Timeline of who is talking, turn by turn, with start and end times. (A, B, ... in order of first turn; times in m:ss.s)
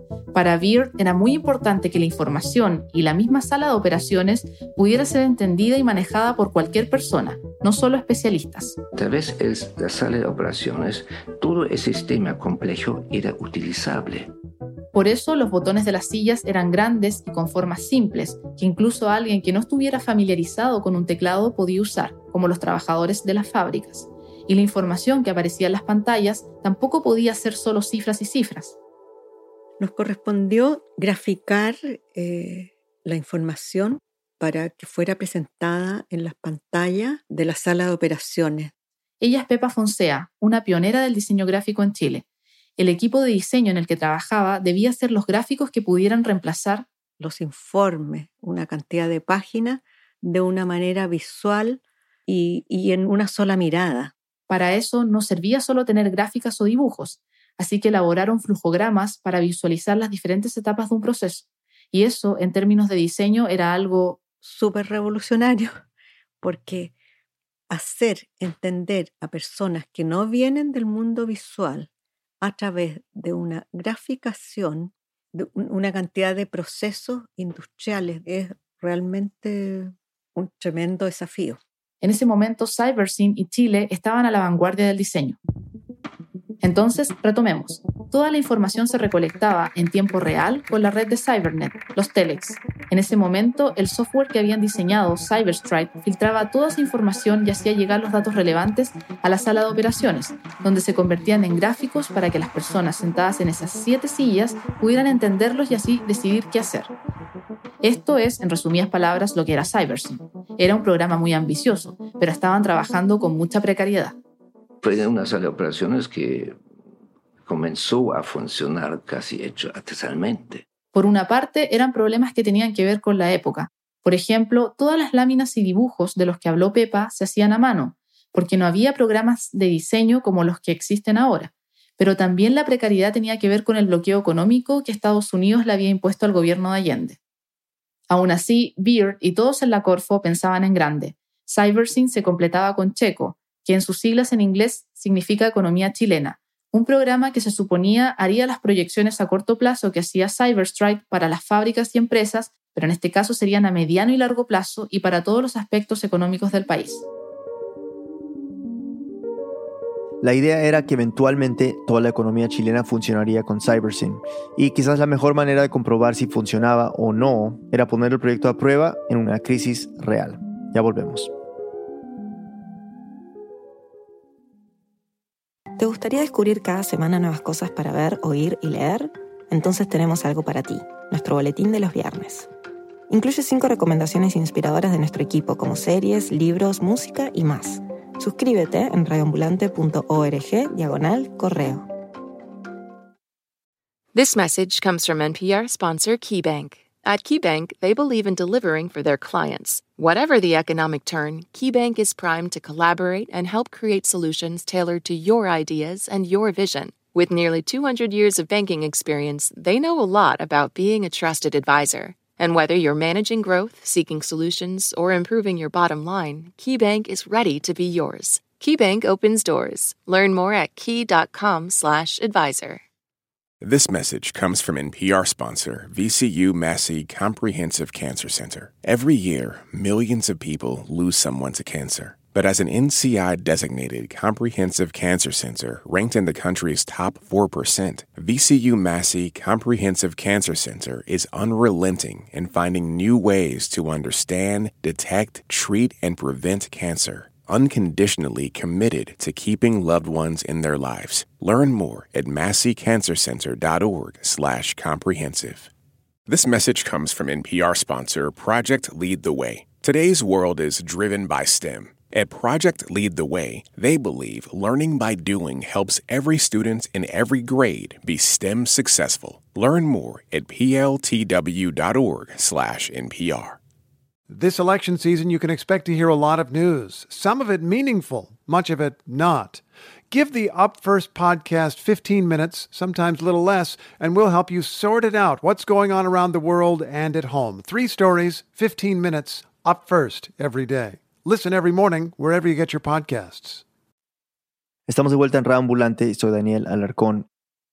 0:00.3-0:08.8 A
0:09.0-0:14.3 B
0:14.9-0:28.8 A
0:29.8-0:38.7 C
0:39.2-0:42.2 A
0:42.8-0:46.9 A
0:47.2-0:54.1 C
0:54.5-1:04.2 A
1:04.4-1:05.8 C
1:06.4-1:07.0 C
1:07.7-1:11.9 C
1:12.4-1:21.6 C
1:22.0-1:25.4 A
1:26.6-1:46.9 A
1:47.8-1:54.2 A
1:54.8-1:56.6 B
1:57.4-2:00.6 B
2:00.9-2:17.2 A
2:18.1-2:37.0 A
2:40.2-2:51.3 D
2:55.8-3:02.5 E
3:03.1-3:11.8 E
3:14.1-3:42.8 F
3:43.6-4:15.7 G
4:16.3-4:33.6 G
4:34.3-4:53.6 H
4:54.9-4:57.3 D